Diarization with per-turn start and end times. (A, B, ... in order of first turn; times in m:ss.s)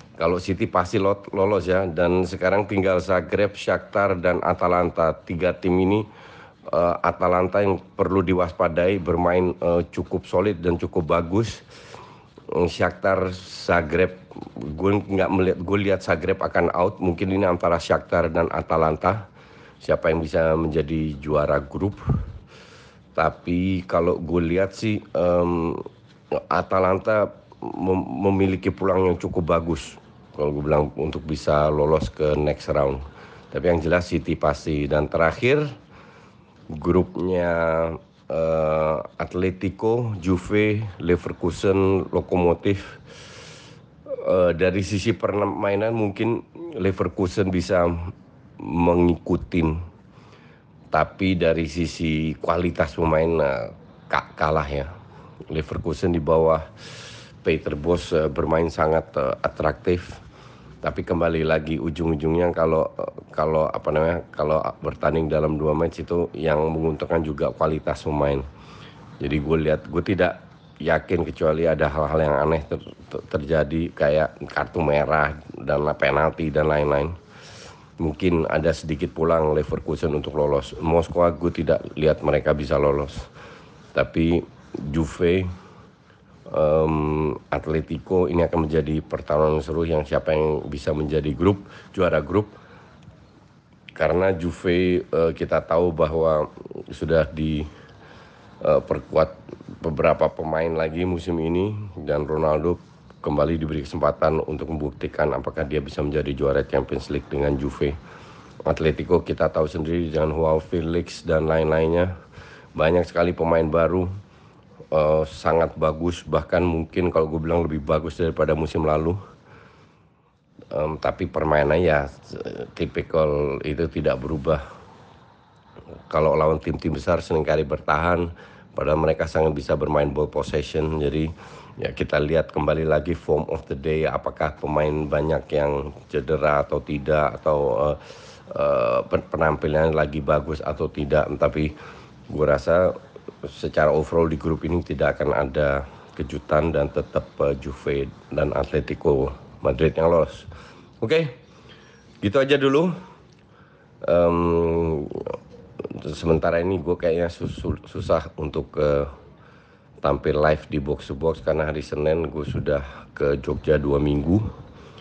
0:00.2-0:06.1 A
0:06.7-0:11.6 A
0:12.5-0:19.2 A
0:19.8-0:22.0 A
0:23.2-0:35.7 A
0:36.7-0:43.0 A
0:44.1-0:49.8 A
0:50.9-0:54.9 A
0:55.5-0:56.7 A
0:57.4-1:00.2 A
1:00.8-1:08.4 A
1:09.2-1:17.1 A
1:18.0-1:23.3 A
1:23.9-1:25.5 A
1:26.5-1:32.6 A
1:34.0-1:37.7 A
1:38.6-1:48.0 A
1:48.7-1:52.1 A
1:52.8-1:54.1 A
1:54.9-1:59.2 A
2:00.7-2:04.6 A
2:06.1-2:21.8 A
2:22.3-2:22.9 A
2:23.4-2:30.5 A
2:31.0-2:31.4 A
2:32.2-2:32.9 A
2:34.0-2:39.1 A
2:40.0-2:44.5 A